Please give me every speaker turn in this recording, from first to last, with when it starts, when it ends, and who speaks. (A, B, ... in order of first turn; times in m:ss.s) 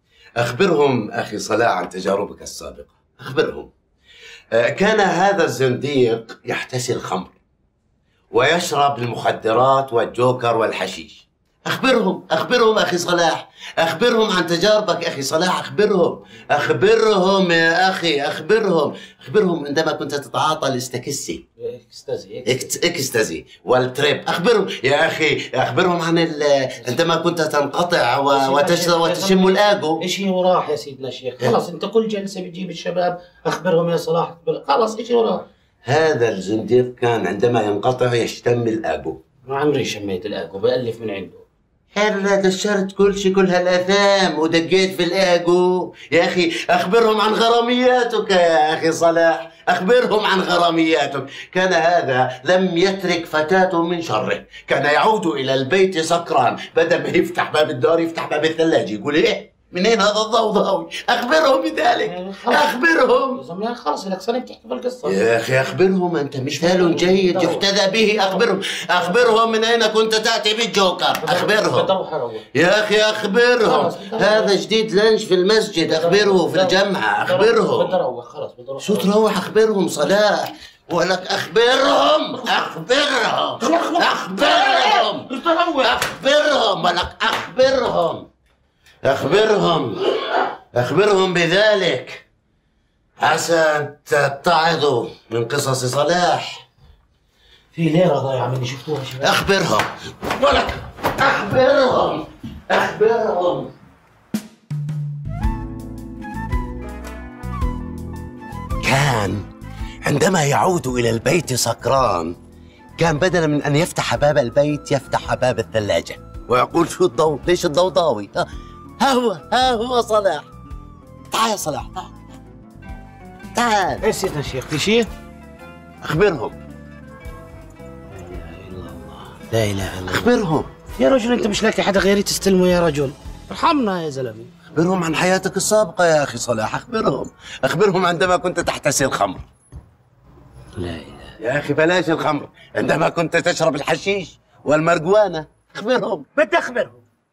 0:00.4-0:03.7 A
0:04.5-0:07.4 A
0:08.3-0:21.4 A
0:21.6-0:22.7 B
0:22.4-0:30.0 A
0:26.8-0:27.1 B
0:28.3-0:35.5 B
0:35.8-0:39.2 A
0:39.5-0:41.4 B
0:42.0-1:03.4 A
1:02.0-1:02.8 B
1:03.4-1:05.2 B
1:05.0-1:11.9 A
1:06.6-1:09.4 B
1:11.2-1:12.5 B
1:12.5-1:18.0 A
1:13.6-1:14.6 B
1:15.9-1:19.1 B
1:18.8-1:25.3 A
1:23.6-1:26.0 B
1:25.8-1:28.3 A
1:29.0-1:32.3 A
1:33.2-1:36.6 A
1:37.7-1:39.4 B
1:39.2-1:43.7 A
1:48.8-1:49.5 A
1:50.0-1:52.4 A
1:53.0-1:58.5 A
1:59.0-2:00.5 A
2:01.3-2:02.1 A
2:03.6-2:04.1 A
2:04.0-2:05.1 B
2:06.0-2:06.6 A
2:08.1-2:10.3 B
2:10.0-2:10.7 A
2:11.0-2:14.5 B
2:14.7-2:19.5 A
2:20.8-2:21.4 B
2:21.4-2:26.3 A
2:26.4-2:27.0 B